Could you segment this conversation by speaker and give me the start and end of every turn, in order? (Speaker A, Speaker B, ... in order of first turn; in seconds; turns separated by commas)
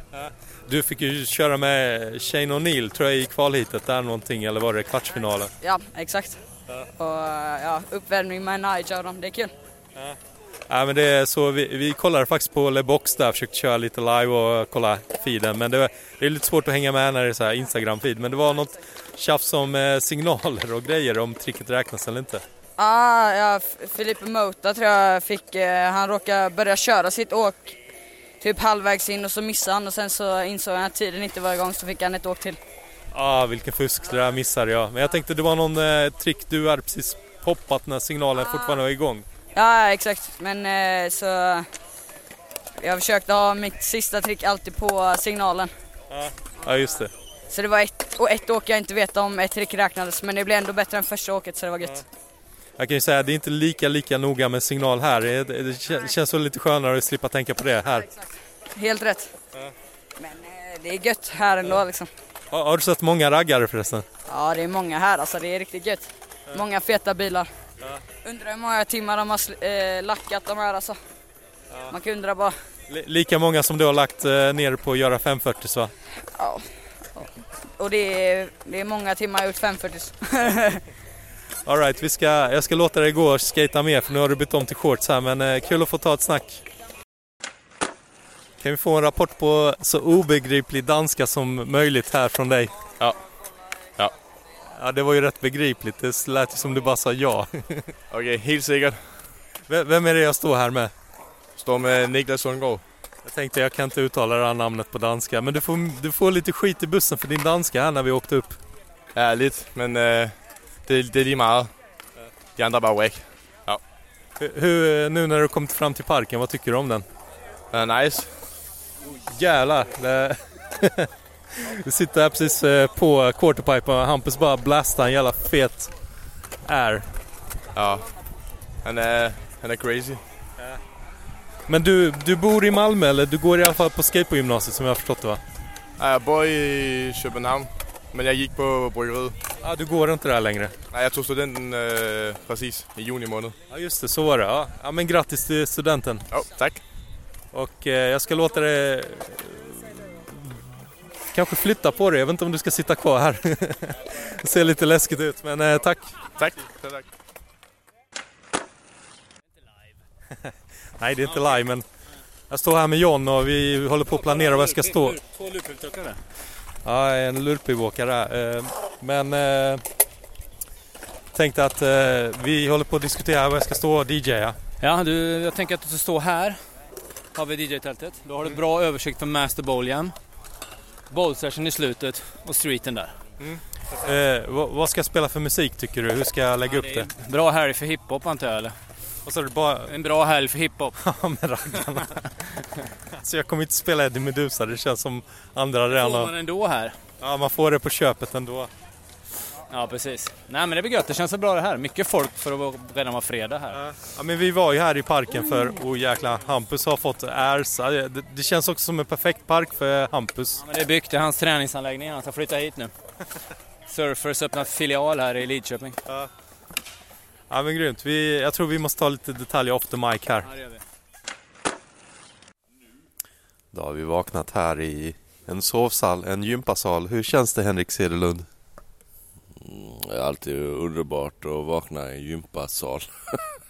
Speaker A: 0.7-5.5, Speaker B: 5.6-6.4, Speaker B: 7.0-9.5, Speaker A: 10.7-22.4, Speaker B: 22.8-27.8, Speaker B: 28.4-32.6, Speaker A: 33.1-39.2, Speaker B: 38.4-38.7, Speaker B: 39.5-41.7, Speaker B: 42.8-45.7, Speaker A: 46.1-47.1, Speaker B: 47.5-52.0, Speaker A: 52.8-58.0, Speaker B: 58.0-59.3, Speaker B: 60.2-62.1, Speaker A: 62.5-64.0, Speaker B: 64.3-67.5, Speaker B: 68.2-71.0, Speaker B: 71.9-72.6, Speaker A: 72.9-75.9, Speaker B: 76.3-80.8, Speaker A: 81.6-86.6, Speaker A: 88.6-92.8, Speaker A: 94.7-97.9, Speaker C: 98.1-99.3, Speaker A: 99.7-100.9, Speaker C: 101.6-102.8, Speaker A: 103.2-108.6, Speaker C: 109.1-111.8, Speaker C: 112.5-113.8, Speaker A: 114.4-117.0, Speaker C: 117.7-118.4, Speaker A: 119.3-121.1, Speaker A: 121.6-127.1, Speaker C: 127.7-128.1, Speaker C: 128.8-130.2, Speaker A: 131.7-135.4, Speaker C: 136.0-139.3, Speaker A: 139.6-140.7, Speaker C: 140.9-143.5, Speaker A: 143.7-146.3, Speaker C: 146.3-146.8, Speaker A: 147.5-150.6, Speaker A: 151.3-156.2, Speaker C: 156.3-157.0, Speaker A: 161.0-161.8, Speaker A: 162.5-165.2, Speaker D: 165.7-166.2, Speaker A: 166.8-169.8, Speaker A: 171.3-174.6, Speaker D: 174.8-176.7, Speaker D: 177.3-180.2, Speaker D: 181.1-183.2, Speaker A: 184.0-187.1, Speaker D: 186.7-188.8, Speaker A: 189.2-189.9, Speaker D: 189.9-190.9, Speaker A: 191.0-192.2, Speaker A: 193.2-196.3, Speaker D: 195.9-197.0, Speaker A: 197.2-198.7, Speaker D: 199.7-203.8, Speaker A: 203.7-210.6, Speaker D: 210.6-212.9, Speaker D: 213.9-216.0, Speaker A: 217.5-220.5, Speaker D: 220.4-220.8, Speaker E: 223.7-228.5, Speaker F: 229.6-233.4